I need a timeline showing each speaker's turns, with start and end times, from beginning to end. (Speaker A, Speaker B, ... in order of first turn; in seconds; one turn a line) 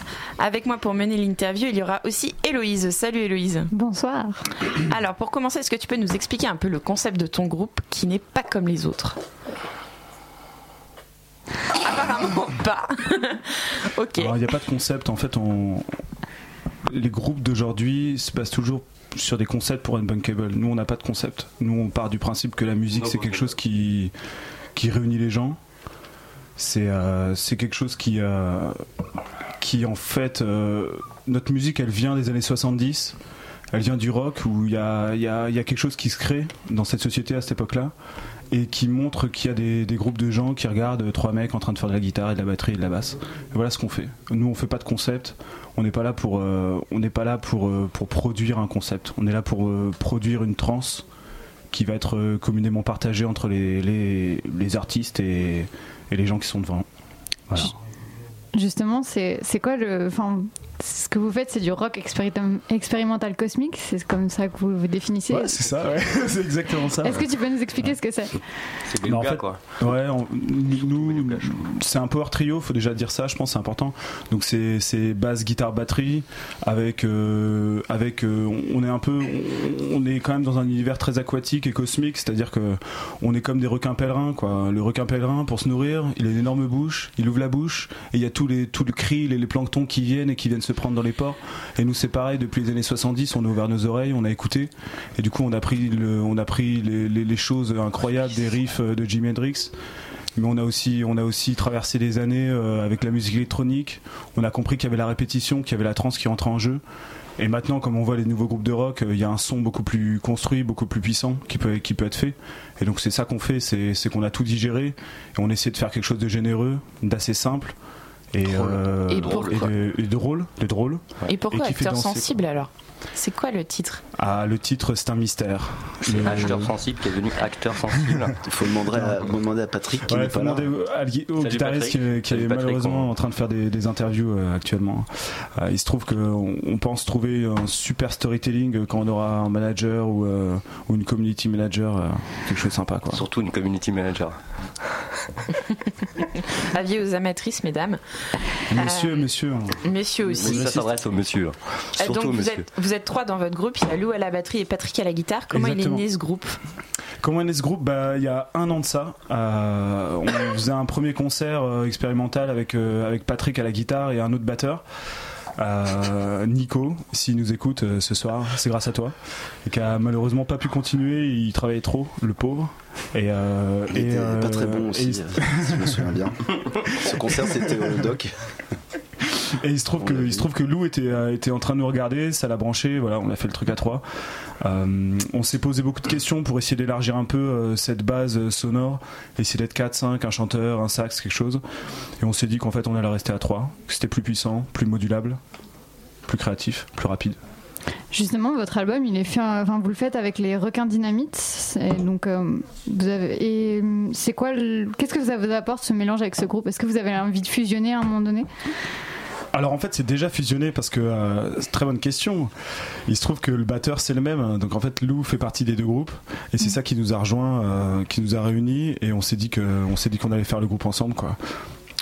Speaker A: 0.4-3.7
Speaker B: 3.7-4.4
Speaker A: 4.9-9.2
Speaker A: 11.8-14.4
Speaker C: 14.1-15.8
Speaker C: 16.9-24.1
Speaker D: 23.0-23.3
Speaker C: 24.7-25.6
Speaker C: 26.6-28.8
Speaker C: 29.6-33.2
Speaker C: 33.7-37.9
Speaker C: 38.5-51.0
Speaker C: 51.7-56.9
Speaker B: 58.5-65.6
Speaker C: 65.3-67.9
Speaker B: 67.0-68.4
Speaker D: 68.9-69.6
Speaker C: 69.0-99.7
Speaker D: 70.7-71.6
Speaker C: 100.3-106.8
Speaker C: 107.4-117.7
Speaker C: 118.3-122.4
Speaker D: 118.5-119.7
Speaker A: 121.3-124.0
Speaker C: 124.2-126.8
Speaker D: 126.1-128.3
Speaker C: 127.9-128.2
Speaker E: 128.4-130.7
Speaker C: 128.9-129.3
Speaker C: 130.0-143.2
Speaker D: 131.4-133.1
Speaker D: 143.1-144.4
Speaker A: 146.6-148.0
Speaker C: 148.7-151.0
Speaker A: 148.8-149.3
Speaker A: 149.8-150.7
Speaker D: 150.4-152.7
Speaker A: 152.0-156.6
Speaker C: 155.5-156.0
Speaker C: 157.2-164.8
Speaker C: 165.6-169.1
Speaker C: 169.7-176.0
Speaker E: 173.9-178.3
Speaker C: 176.9-177.6
Speaker C: 179.6-184.0
Speaker E: 180.0-180.5
Speaker C: 184.6-191.6
Speaker C: 192.2-195.4
Speaker C: 196.2-197.4
Speaker B: 198.1-208.5
Speaker C: 209.5-212.5
Speaker C: 213.1-221.4